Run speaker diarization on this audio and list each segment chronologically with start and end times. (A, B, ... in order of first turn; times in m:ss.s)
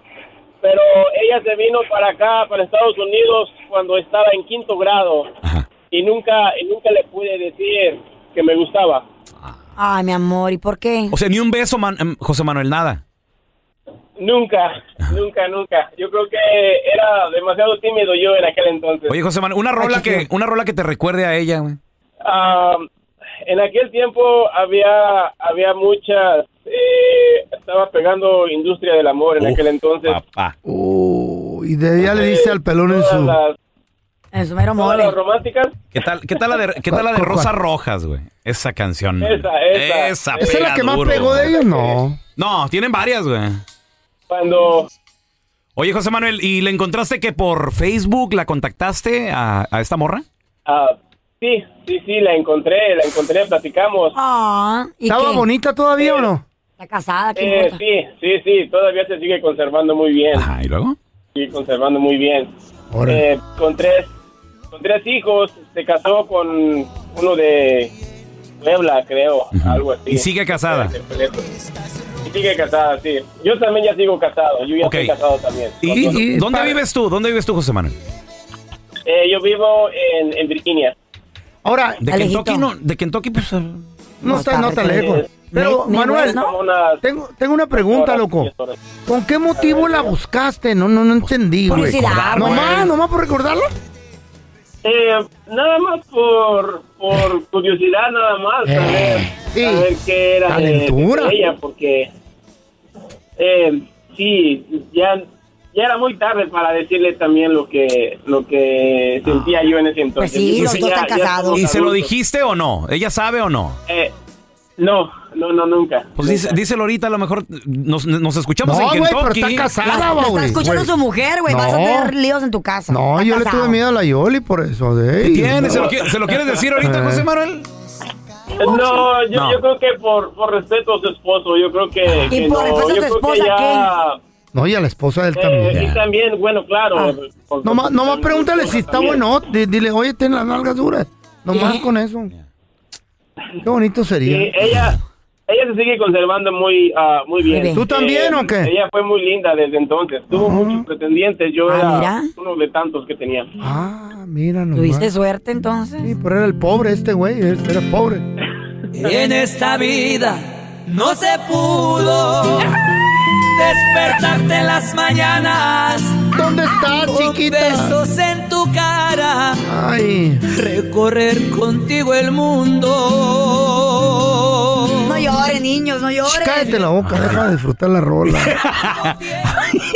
0:00.6-0:05.3 A
0:05.9-0:09.0 A
0:09.8-0:11.1 B
0:11.1-0:13.0 C
0:14.2-0:19.2 A
0:19.1-0:21.8 C
0:19.8-0:20.2 B
0:22.2-0:22.9 A
0:23.4-0:30.2 A
0:29.4-0:30.5 C
0:30.6-0:33.4 D
0:32.0-0:33.6 A
0:34.3-0:35.2 B
0:34.8-0:35.8 A
0:35.9-0:41.6 C
0:36.9-0:37.5 D
0:39.2-0:40.6 A
0:40.4-0:42.2 D
0:41.5-0:42.0 A
0:42.4-0:43.6 C
0:44.3-0:44.9 A
0:45.8-0:50.2 C
0:50.6-0:54.1 A
0:54.1-0:55.4 B
0:55.1-0:56.4 D
0:56.0-0:56.3 A
0:56.8-0:57.8 B
0:57.4-1:00.5 A
1:00.3-1:01.0 C
1:01.3-1:02.5 A
1:02.9-1:03.2 D
1:03.0-1:04.1 A
1:04.7-1:07.9 A
1:08.6-1:11.5 A
1:09.5-1:10.9 C
1:12.2-1:16.2 A
1:14.8-1:15.1 C
1:15.8-1:18.0 C
1:15.9-1:16.8 D
1:19.1-1:20.9 A
1:21.6-1:22.0 D
1:22.0-1:23.8 C
1:22.1-1:22.7 B
1:24.2-1:26.4 D
1:24.2-1:26.5 B
1:24.9-1:25.3 A
1:26.2-1:27.0 A
1:27.0-1:28.5 D
1:27.7-1:28.8 A
1:29.0-1:33.7 D
1:29.6-1:30.1 A
1:31.7-1:32.8 C
1:31.7-1:32.9 B
1:34.8-1:42.1 A
1:38.7-1:39.9 D
1:40.4-1:41.5 D
1:43.4-1:52.1 A
1:49.2-1:49.5 C
1:50.2-1:51.6 B
1:50.6-1:50.9 C
1:51.5-1:53.8 C
1:53.9-1:54.1 A
1:54.8-1:56.6 A
1:56.2-1:59.7 C
1:58.6-2:00.9 D
1:59.8-2:03.8 B
2:01.5-2:02.1 D
2:02.9-2:06.0 D
2:05.2-2:07.7 C
2:06.8-2:07.2 D
2:08.6-2:14.2 A
2:09.3-2:09.6 C
2:12.3-2:13.9 B
2:14.5-2:15.8 D
2:15.3-2:19.2 A
2:15.7-2:16.0 C
2:17.6-2:22.3 D
2:21.5-2:21.9 B
2:23.6-2:24.6 D
2:24.2-2:33.5 A
2:27.4-2:27.8 B
2:27.7-2:28.7 D
2:30.3-2:30.8 D
2:31.7-2:32.3 B
2:33.6-2:35.1 D
2:34.7-2:36.1 B
2:36.0-2:38.2 D
2:38.9-2:42.8 E
2:43.4-2:46.3 E
2:46.3-2:47.9 D
2:47.1-2:49.6 E
2:49.6-2:50.4 D
2:50.5-2:55.2 E
2:55.0-2:56.8 B
2:56.2-2:58.6 D
2:57.0-2:57.4 C
2:58.3-2:59.1 C
2:59.0-2:59.5 E